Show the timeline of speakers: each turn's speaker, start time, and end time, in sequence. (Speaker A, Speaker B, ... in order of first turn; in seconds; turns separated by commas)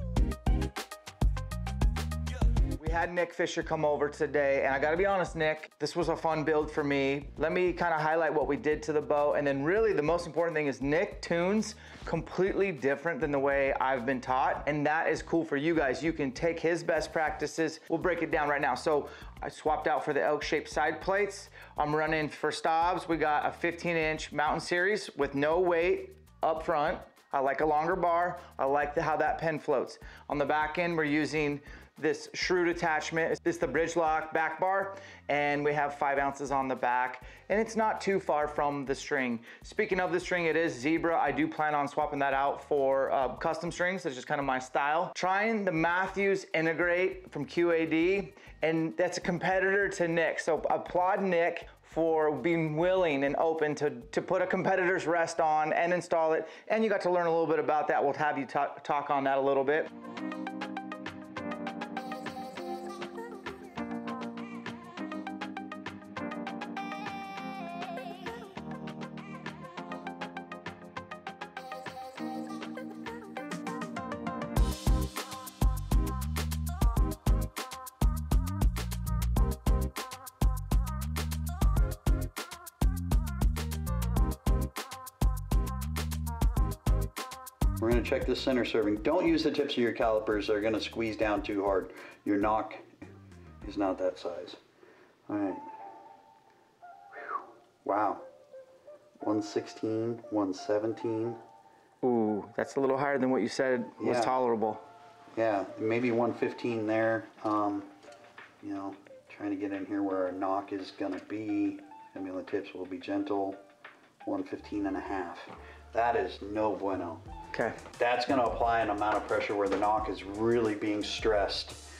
Speaker A: 2.8-59.9, Speaker B: 87.8-92.9, Speaker B: 93.6-94.6, Speaker B: 95.3-95.7, Speaker B: 97.1-98.2, Speaker B: 99.2-101.4, Speaker A: 102.0-104.8, Speaker B: 104.0-104.3, Speaker B: 105.3-107.9, Speaker B: 108.6-113.6, Speaker B: 114.2-117.2, Speaker A: 117.5-117.8, Speaker B: 117.9-121.8